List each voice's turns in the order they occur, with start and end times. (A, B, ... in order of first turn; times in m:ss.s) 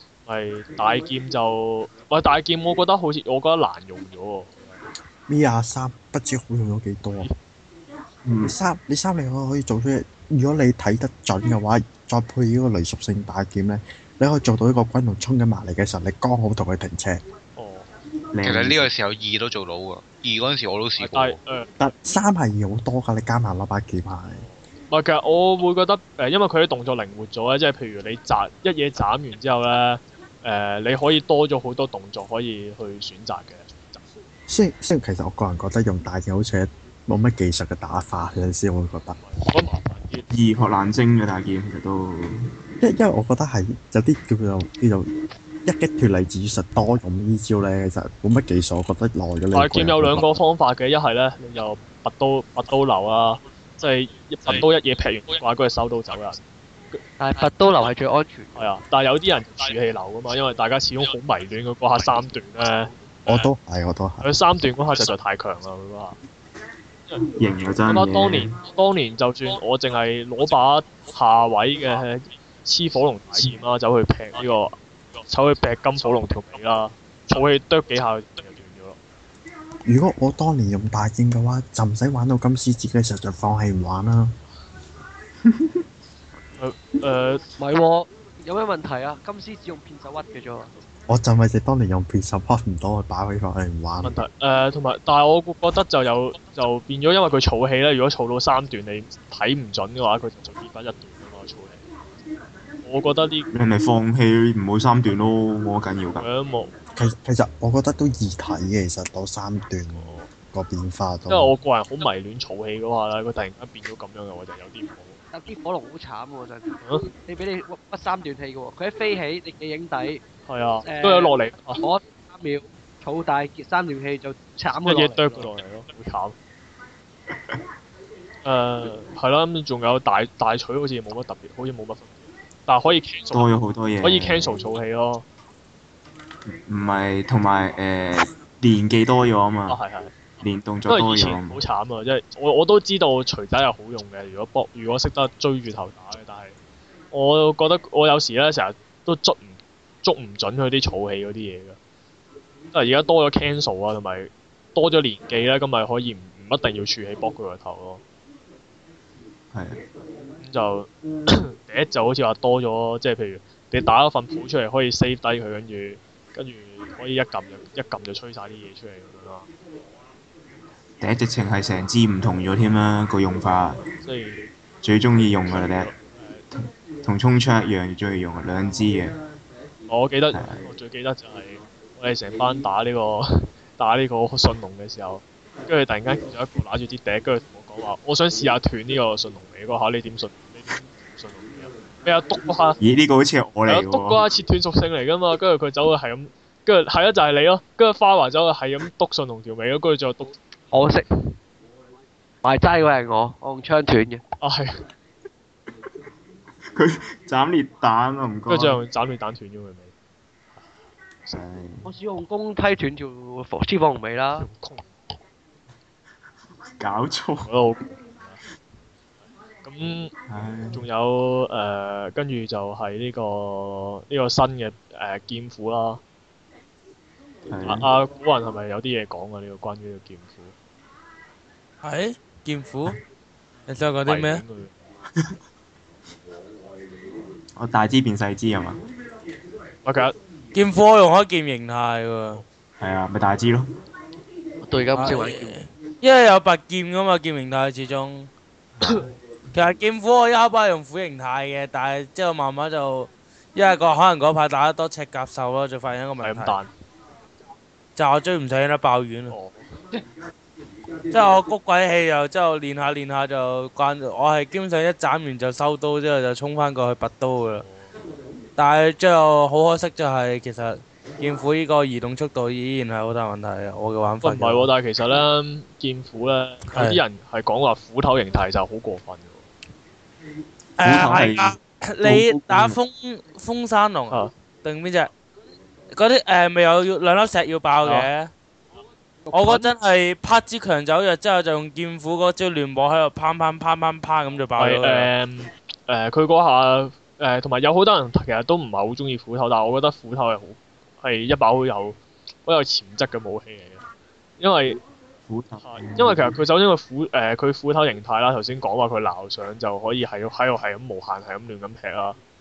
0:00.2-0:04.7 A
0:05.3-0:07.3 B
0:08.2-0:08.5 C
0:08.4-0:17.2 B
0:17.6-0:17.9 A
0:18.3-0:18.9 C
0:18.4-0:21.4 D
0:21.0-0:21.7 A
0:21.8-0:24.4 B
0:24.3-0:34.0 A
0:34.5-0:39.2 B
0:39.2-0:40.2 A
0:40.3-0:42.5 C
0:42.8-0:45.1 B
0:45.6-0:50.3 B
0:49.5-0:56.4 A
0:57.2-0:58.5 E
0:58.5-1:03.5 A
1:03.2-1:04.3 B
1:04.2-1:06.2 A
1:07.4-1:08.6 C
1:07.9-1:19.0 A
1:19.8-1:24.4 B
1:26.6-1:27.4 A
1:27.6-1:30.7 E
1:31.1-1:34.2 B
1:34.0-1:41.8 A
1:42.8-1:43.5 A
1:43.5-1:46.3 C
1:46.2-1:46.7 A
1:46.9-1:51.5 B
1:49.9-1:50.3 A
1:51.3-1:55.2 A
1:55.3-2:00.2 E
2:00.5-2:01.8 A
2:00.8-2:05.5 E
2:04.8-2:06.3 A
2:08.4-2:13.5 A
2:13.3-2:14.6 C
2:14.0-2:15.2 A
2:16.7-2:19.8 C
2:19.7-2:20.1 A
2:20.4-2:21.6 C
2:20.9-2:26.6 A
2:27.1-2:31.8 A
2:32.7-2:38.0 A
2:39.5-2:39.8 C
2:40.4-2:49.5 A
2:51.0-2:53.8 C
2:54.0-2:54.5 A
2:54.8-2:55.9 C
2:55.4-2:56.4 A
2:56.6-2:59.2 C
2:59.9-3:12.8 A
3:00.3-3:00.6 C
3:12.8-3:14.2 C
3:13.7-3:20.4 A
3:20.7-3:21.0 E
3:22.4-3:24.2 E
3:24.4-3:24.7 A
3:26.7-3:28.8 C
3:28.5-3:29.9 A
3:31.3-3:31.9 C
3:31.8-3:34.5 E
3:34.3-3:34.9 A
3:36.8-3:37.5 C
3:37.4-3:38.4 A
3:39.6-3:40.1 A
3:40.3-3:40.8 C
3:40.7-3:46.0 A
3:47.5-3:47.9 C
3:47.6-3:50.5 A
3:51.8-3:53.0 F
3:53.7-3:54.4 F
3:54.0-3:54.7 A
3:57.6-3:58.8 C
3:59.8-4:00.1 A
4:00.5-4:02.4 F
4:02.8-4:03.7 C
4:04.6-4:05.6 E
4:04.9-4:08.3 F
4:08.8-4:09.1 C
4:09.5-4:16.6 F
4:16.2-4:16.7 A
4:18.0-4:19.3 F
4:19.3-4:19.6 A
4:21.1-4:27.6 F
4:27.6-4:27.9 A
4:28.6-4:34.7 F
4:34.2-4:39.5 A
4:36.7-4:37.0 F
4:40.8-4:45.1 F
4:40.8-4:42.8 C
4:45.9-4:48.3 F
4:47.8-4:48.1 A
4:49.3-4:49.7 E
4:49.3-4:55.1 F
4:54.6-5:03.8 A
5:04.4-5:04.8 A
5:05.3-5:06.3 C
5:05.6-5:12.2 A